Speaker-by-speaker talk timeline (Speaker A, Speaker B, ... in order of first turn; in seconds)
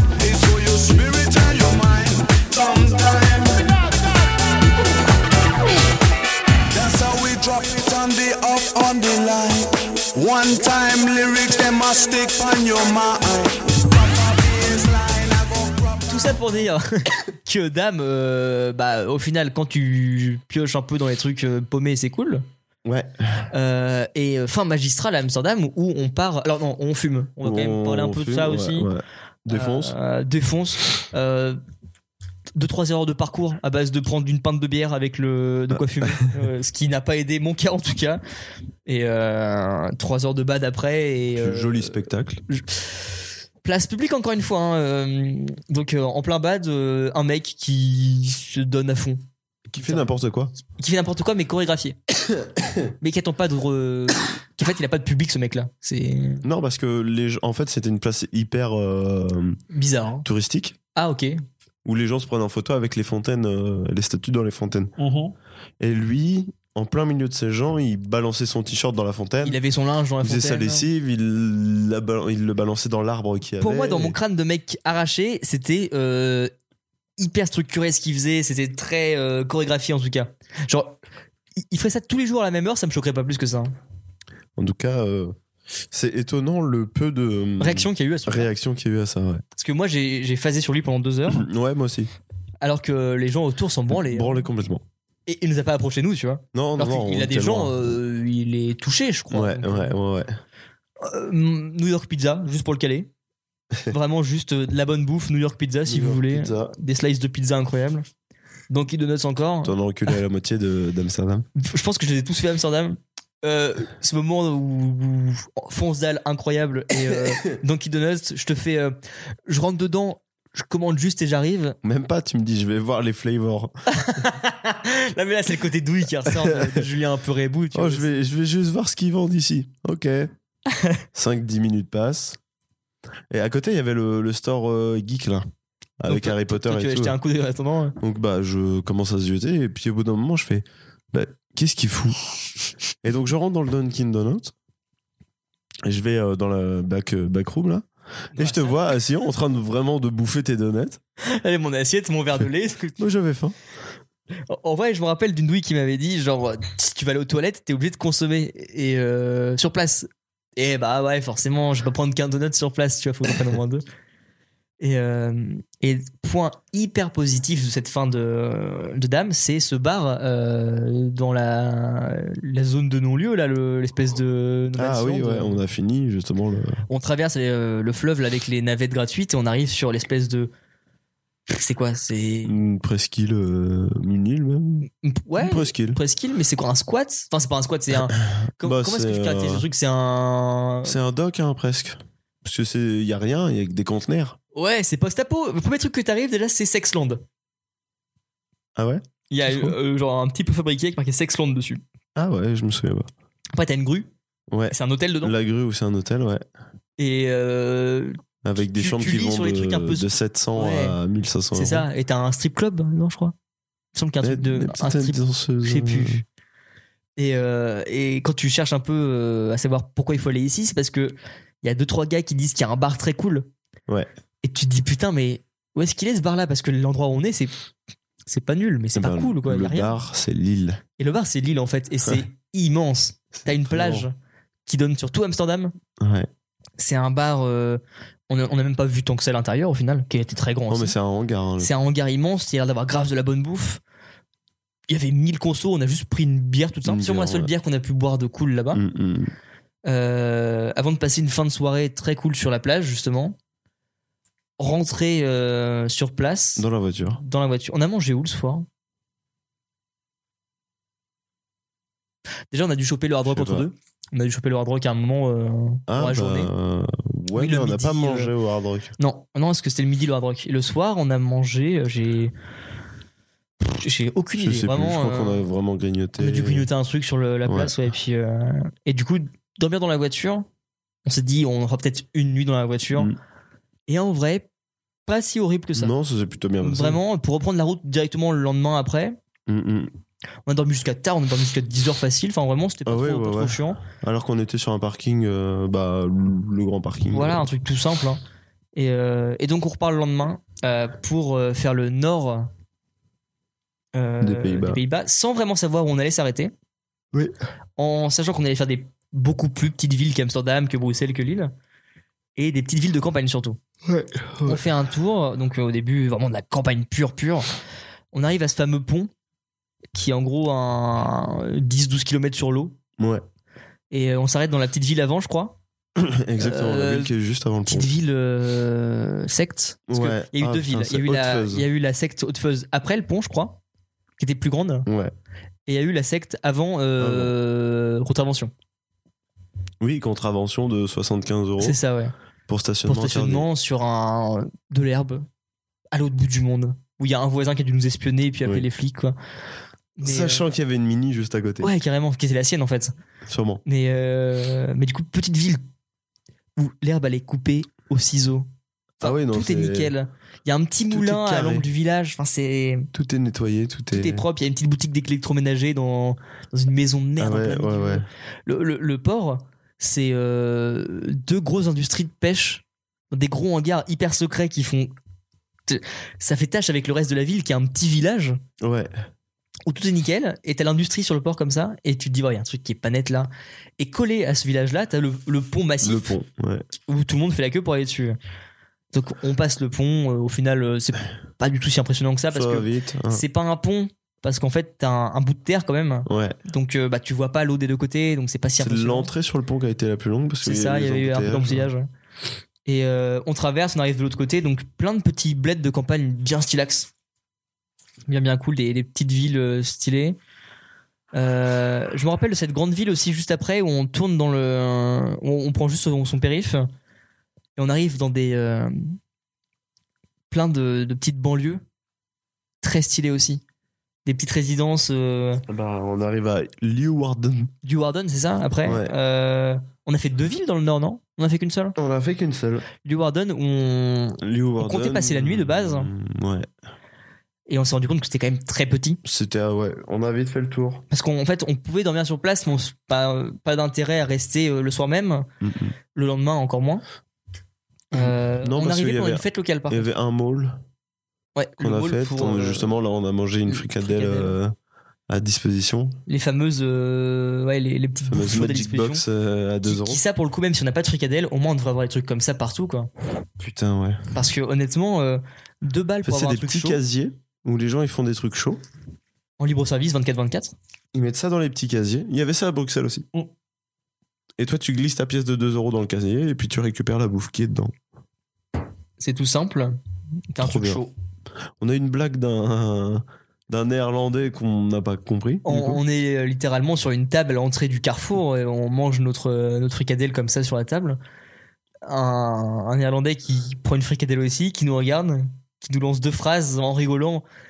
Speaker A: 0.2-3.4, 6.7-9.7, 10.2-15.9
Speaker B: 16.1-22.4, 23.5-28.9, 29.5-31.6, 32.6-38.2, 38.9-42.8, 43.6-49.2, 49.8-50.1, 50.8-52.0, 53.0-56.4, 59.7-60.3, 61.0-61.3, 65.0-65.3, 69.4-70.9, 73.6-76.5, 77.2-81.0, 81.7-83.7, 87.6-88.5, 89.5-91.4, 92.6-94.4, 95.3-100.0, 101.0-103.1, 103.9-108.0, 108.7-109.8, 111.5-119.0, 119.5-121.8, 123.9-128.1, 136.1-137.9, 148.3-148.8, 151.2-153.1, 154.5-163.8, 164.8-175.6, 176.9-180.5, 181.5-182.6, 185.0-191.0, 194.5-197.2, 199.3-201.8, 203.5-204.1, 204.7-205.3, 207.0-211.0, 211.5-213.3, 213.9-216.2, 217.2-223.5, 224.4-227.5, 228.3-229.9, 231.0-234.1, 234.7-235.7, 236.8-240.9, 241.6-243.8, 244.9-248.8, 249.8-253.3, 254.6-256.6, 257.2-258.6, 262.5-266.5, 267.3-268.3, 269.0-272.3, 273.6-275.4, 276.2-280.4, 281.0-283.1, 283.9-284.5, 285.1-285.9, 286.6-289.2, 290.4-293.8, 297.1-298.2, 298.8-302.5, 303.9-306.5, 307.8-311.5, 312.4-313.6, 314.4-317.5, 318.1-319.1, 319.9-322.8, 323.9-325.6, 326.4-327.1, 327.7-333.6, 334.2-334.9, 335.7-338.5, 341.6-342.1, 342.9-345.2, 345.9-349.1, 350.0-350.4, 351.6-352.9, 353.6-355.6, 356.6-358.5, 359.0-362.9, 363.9-374.9, 375.7-378.4, 379.7-386.1, 386.9-388.2, 388.9-399.1, 400.4-401.9, 402.6-406.9, 408.1-410.2, 411.1-416.7, 417.6-419.0, 420.3-421.6, 422.6-423.4, 424.1-425.4, 427.6-431.7, 432.8-435.9, 437.5-439.0, 440.9-445.2, 445.9-446.8, 447.9-449.9, 451.4-452.7, 453.5-454.4, 456.1-459.0, 459.6-462.9, 464.1-466.8, 469.4-470.5, 479.0-479.8, 480.3-480.9, 485.4-491.0, 491.8-497.2
Speaker C: 22.8-23.4, 27.4-29.9, 35.7-36.2, 41.4-42.4, 49.7-50.5, 56.4-59.6, 60.2-60.8, 61.8-64.9, 65.8-69.6, 70.2-74.2, 84.6-85.3, 85.9-89.4, 91.3-92.1, 93.9-94.8, 96.5-97.9, 99.3-100.4, 105.8-106.7, 109.6-111.5, 121.8-123.7, 126.2-126.9, 127.7-130.3, 131.1-132.4, 133.3-135.5, 136.0-137.2, 138.0-142.2, 143.0-144.5, 145.8-151.0, 153.0-153.5, 174.8-176.8, 182.4-186.0, 187.9-189.7, 190.8-194.4, 198.8-199.8, 202.1-203.1, 204.5-206.4, 208.4-211.9, 214.2-216.2, 228.9-230.8, 233.3-234.1, 236.0-236.3, 240.7-241.7, 246.8-247.5, 248.7-249.3, 256.6-257.2, 263.3-263.7, 265.9-268.9, 274.4-276.7, 277.4-277.7, 285.7-287.0, 289.5-289.9, 292.9-297.5, 304.2-304.8, 313.9-314.6, 323.0-323.2, 326.0-327.9, 329.9-331.6, 334.9-335.1, 337.0-337.3, 339.8-341.8, 342.5-343.5, 350.0-351.7, 353.2-353.6, 359.0-359.9, 360.9-361.6, 362.9-364.2, 367.2-368.1, 378.6-378.9, 385.8-386.6, 392.3-393.2, 396.1-396.4, 398.6-401.7, 425.5-427.5, 428.6-428.9, 431.8-432.7, 434.2-436.5, 439.0-440.8, 445.4-445.7, 447.9-450.6, 451.6-454.5, 455.1-456.0, 458.1-460.0, 463.4-464.0, 466.0-468.6, 470.9-473.1, 474.4-477.7, 480.4-480.8, 481.6-485.8